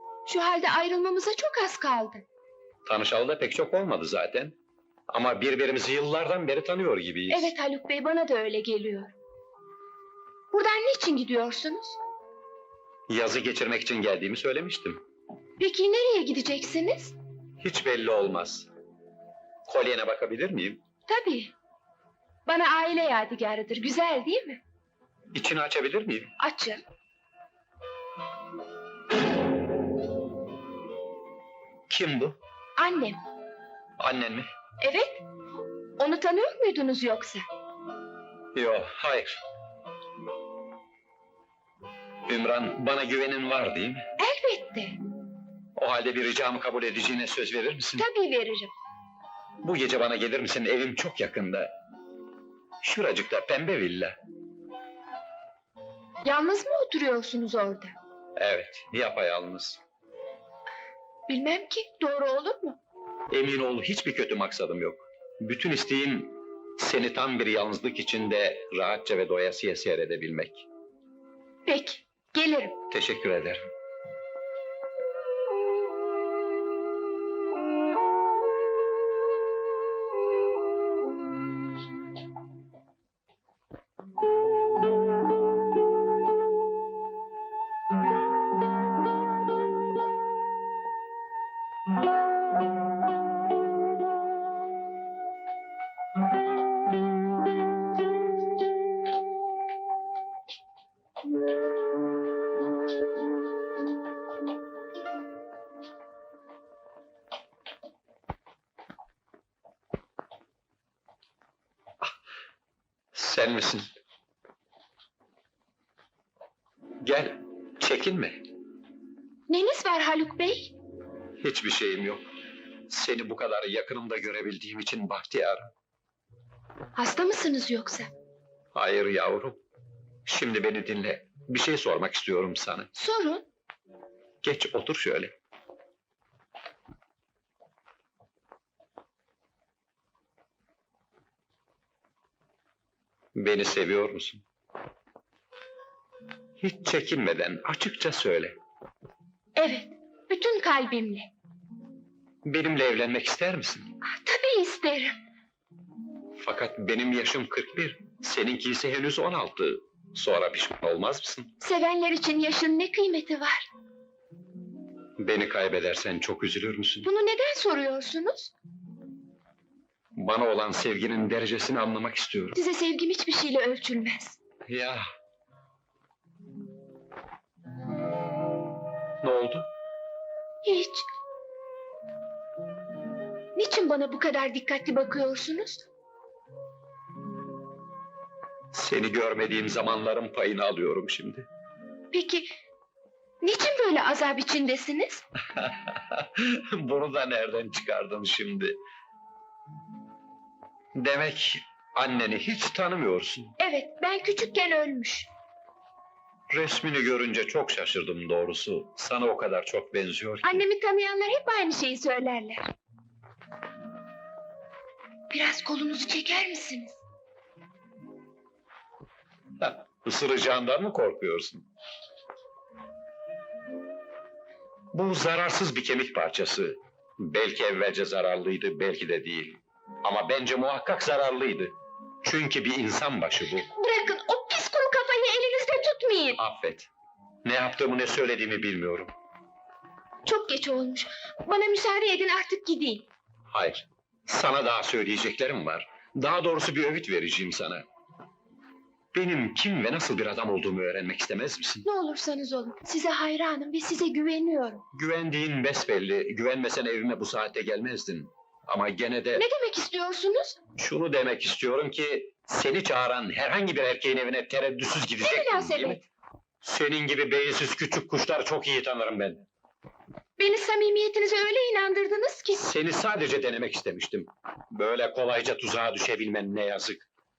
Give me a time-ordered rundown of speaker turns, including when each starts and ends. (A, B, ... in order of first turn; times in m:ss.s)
0:00.3-0:02.2 A
0:02.8-0:04.6 B
0:05.1-0:07.5 B
0:07.3-0:09.1 A
0:10.5-0:12.0 A
0:13.1-0:15.0 B
0:15.6-0:17.2 A
0:17.6-0:18.7 B
0:19.6-0:20.8 B
0:21.1-0:21.5 A
0:22.4-0:24.6 A
0:25.3-0:26.3 B
0:26.4-0:26.8 A
0:31.9-0:32.4 B
0:32.8-0:33.2 A
0:34.0-0:34.5 B
0:34.8-0:35.2 A
0:36.0-0:37.4 A
0:38.5-0:39.4 B
0:42.3-0:44.0 B
0:44.2-0:45.0 A
0:45.8-0:48.1 B
0:48.0-0:48.7 A
0:49.6-0:51.7 B
0:52.8-0:54.2 B
0:56.2-0:58.0 A
0:58.4-0:59.8 B
1:01.3-1:02.8 A
1:03.3-1:10.7 B
1:11.6-1:12.8 A
1:12.9-1:13.6 B
1:53.1-1:53.9 B
1:57.0-1:58.4 B
1:59.5-2:00.8 A
2:01.4-2:02.2 B
2:02.9-2:05.7 B
2:07.0-2:08.1 A
2:08.7-2:09.6 B
2:10.2-2:12.9 B
2:12.9-2:13.4 A
2:14.4-2:15.3 B
2:23.3-2:24.4 B
2:26.6-2:28.5 B
2:29.6-2:31.3 A
2:32.4-2:33.9 B
2:34.0-2:35.2 A
2:36.4-2:41.5 B
2:41.6-2:43.7 A
2:45.2-2:47.1 B
2:47.0-2:48.5 A
2:50.1-2:52.6 B
2:52.5-2:54.4 A
2:54.7-2:55.0 B
2:59.2-2:59.7 B
3:00.6-3:01.1 A
3:03.6-3:05.9 A
3:08.7-3:11.5 B
3:12.1-3:12.5 A
3:13.4-3:15.2 A
3:15.5-3:18.8 B
3:20.9-3:23.6 B
3:23.6-3:25.3 A
3:26.5-3:30.6 B
3:30.4-3:32.7 A
3:35.3-3:37.0 A
3:39.6-3:41.7 B
3:44.9-3:53.7 B
3:53.6-3:56.4 A
3:56.4-3:56.9 B
3:57.4-3:59.1 B
4:00.2-4:03.1 A
4:03.5-4:07.8 B
4:09.1-4:11.9 B
4:11.8-4:14.8 A
4:14.9-4:19.4 B
4:19.4-4:20.6 A
4:20.8-4:26.0 B
4:25.2-4:26.0 A
4:26.6-4:29.4 B
4:30.4-4:32.6 A
4:32.6-4:37.1 B